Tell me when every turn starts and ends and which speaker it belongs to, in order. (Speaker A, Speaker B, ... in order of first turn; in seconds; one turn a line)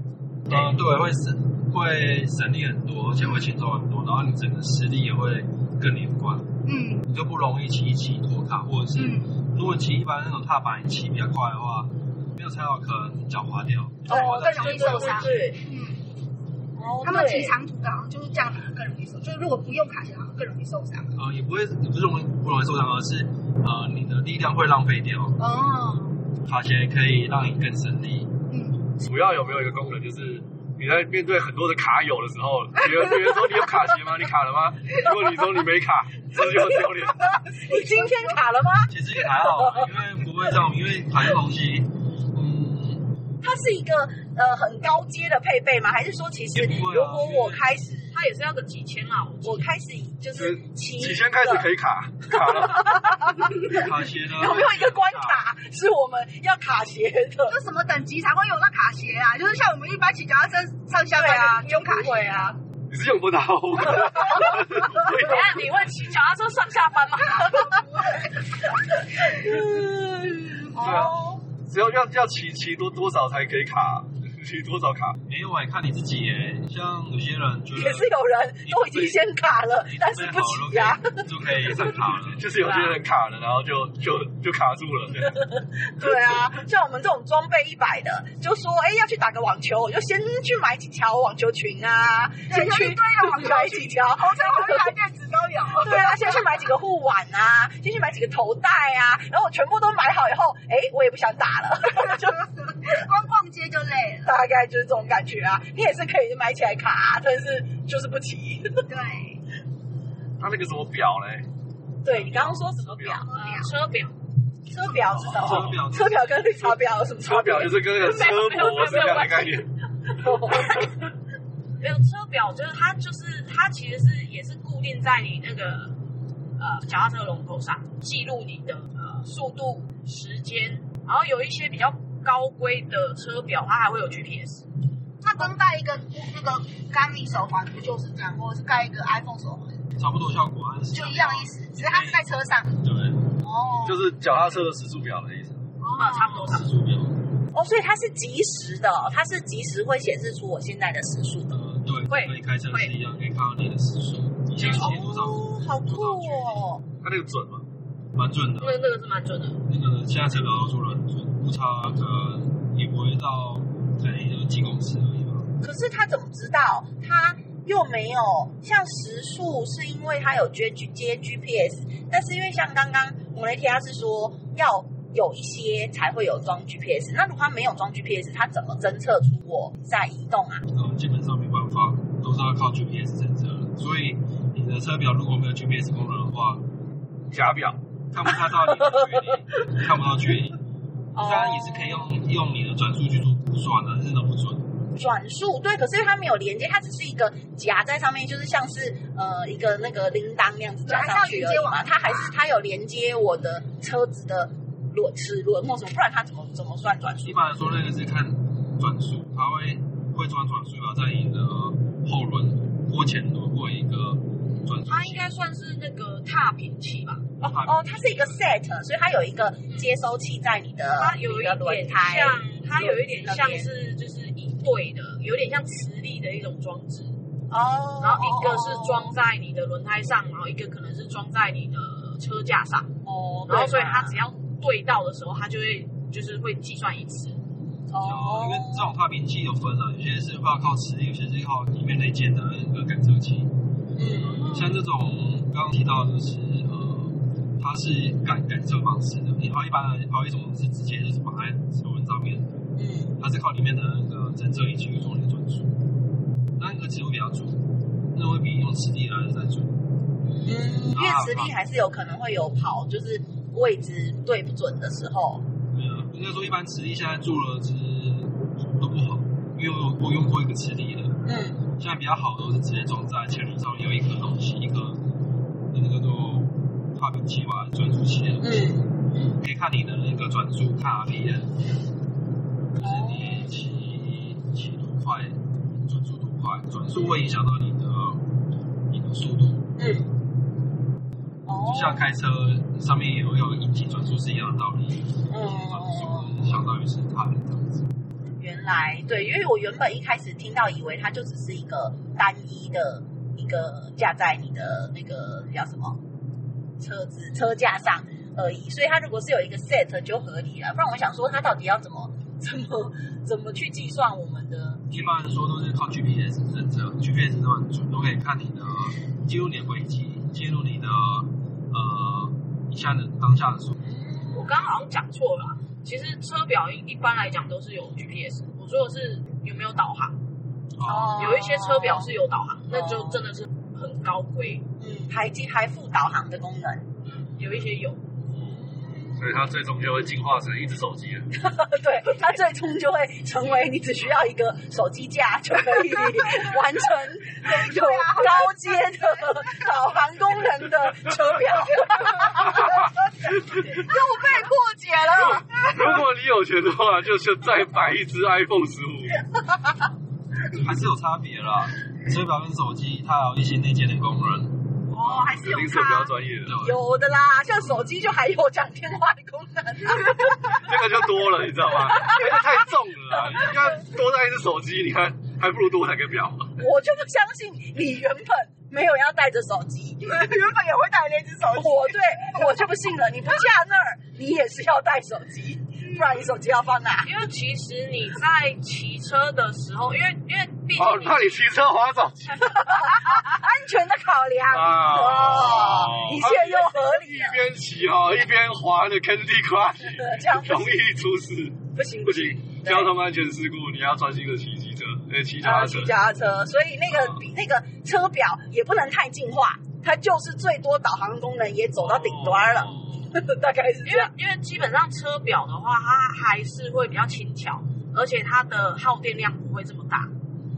Speaker A: 0.5-15.3
Speaker B: 6.6-7.1
Speaker B: 8.9-9.3
Speaker C: 14.1-15.6
Speaker B: 14.1-16.0
Speaker C: 16.8-17.6
Speaker B: 17.0-21.1
Speaker A: 21.1-25.4
Speaker B: 25.4-26.2
Speaker A: 26.4-28.4
Speaker B: 28.5-28.8
Speaker D: 29.0-37.3
Speaker C: 36.3-39.9
Speaker B: 37.4-38.4
Speaker A: 38.9-43.1
Speaker C: 43.4-48.1
Speaker A: 46.5-47.7
Speaker E: 48.1-49.7
Speaker C: 49.4-51.7
Speaker D: 50.3-53.3
Speaker C: 52.3-57.6
Speaker A: 53.5-55.5
Speaker B: 57.5-62.1
Speaker C: 61.1-62.6
Speaker D: 62.9-65.8
Speaker E: 65.2-67.7
Speaker B: 67.3-69.7
Speaker C: 69.2-71.5
Speaker B: 70.7-71.1
Speaker D: 70.8-75.2
Speaker A: 75.2-79.2
Speaker C: 77.7-81.7
Speaker A: 79.8-82.5
Speaker D: 82.2-85.4
Speaker E: 82.6-82.9
Speaker C: 85.5-95.0
Speaker B: 92.5-96.5
Speaker C: 95.7-102.4
Speaker B: 101.9-104.3
Speaker C: 104.2-109.0
Speaker B: 108.9-109.4
Speaker D: 110.4-111.5
Speaker C: 112.0-113.3
Speaker D: 112.1-113.3
Speaker B: 113.2-113.7
Speaker E: 113.3-114.1
Speaker C: 114.7-118.0
Speaker B: 114.7-115.5
Speaker A: 115.1-116.5
Speaker D: 117.2-119.7
Speaker E: 118.0-119.7
Speaker C: 120.2-120.9
Speaker E: 121.8-126.0
Speaker E: 126.6-134.7
Speaker B: 135.2-139.8
Speaker A: 139.9-143.3
Speaker B: 140.9-142.8
Speaker B: 143.4-143.9
Speaker D: 143.8-145.6
Speaker B: 145.8-146.5
Speaker E: 145.9-146.7
Speaker A: 146.3-147.3
Speaker C: 147.5-151.6
Speaker A: 151.5-156.6
Speaker E: 152.1-152.9
Speaker E: 154.6-154.9
Speaker C: 154.6-156.8
Speaker D: 157.0-157.6
Speaker A: 158.1-158.8
Speaker E: 158.6-159.6
Speaker A: 159.6-165.5
Speaker C: 165.6-180.6
Speaker A: 180.7-186.7
Speaker D: 187.3-187.8
Speaker A: 188.1-190.6
Speaker C: 191.1-192.1
Speaker A: 191.2-194.8
Speaker C: 194.9-207.5
Speaker B: 200.9-202.3
Speaker A: 207.2-215.3
Speaker E: 214.9-217.5
Speaker A: 217.4-218.5
Speaker C: 217.6-223.7
Speaker E: 221.0-227.2
Speaker C: 227.5-229.1
Speaker E: 228.0-232.9
Speaker C: 233.0-234.2
Speaker E: 233.5-237.4
Speaker C: 237.9-238.9
Speaker A: 238.0-255.9
Speaker C: 243.9-244.6
Speaker C: 252.8-253.1
Speaker A: 256.6-259.8
Speaker C: 260.4-265.5
Speaker A: 260.8-261.6
Speaker A: 265.7-275.0
Speaker C: 271.2-271.6
Speaker A: 275.7-281.6
Speaker C: 278.4-278.9
Speaker A: 282.7-288.3
Speaker C: 282.8-283.5
Speaker A: 288.9-289.7
Speaker C: 289.8-290.1
Speaker C: 291.4-292.1
Speaker A: 291.5-297.9
Speaker C: 295.3-296.3
Speaker C: 298.4-306.0
Speaker C: 306.8-314.9
Speaker A: 314.9-323.8
Speaker C: 324.0-324.4
Speaker E: 324.3-330.2
Speaker A: 330.8-331.4
Speaker C: 330.8-332.1
Speaker E: 331.1-334.6
Speaker C: 332.7-333.2
Speaker C: 334.8-336.9
Speaker E: 337.1-338.0
Speaker C: 338.5-339.1
Speaker D: 339.1-341.3
Speaker C: 341.4-352.7
Speaker B: 347.3-349.7
Speaker D: 352.4-353.9
Speaker B: 353.7-356.0
Speaker D: 355.1-359.2
Speaker A: 360.5-365.1
Speaker B: 364.9-366.2
Speaker D: 365.1-366.6
Speaker A: 366.4-366.8
Speaker C: 366.6-370.8
Speaker D: 370.4-376.6
Speaker C: 371.9-372.4
Speaker C: 376.6-380.0
Speaker B: 380.0-382.4
Speaker C: 381.5-387.1
Speaker B: 385.8-386.1
Speaker E: 387.0-391.4
Speaker D: 390.7-392.7
Speaker C: 392.4-397.4
Speaker B: 393.1-393.4
Speaker D: 394.5-406.0
Speaker C: 399.9-400.8
Speaker C: 401.7-402.9
Speaker C: 405.4-414.1
Speaker D: 411.8-413.1
Speaker E: 413.8-420.1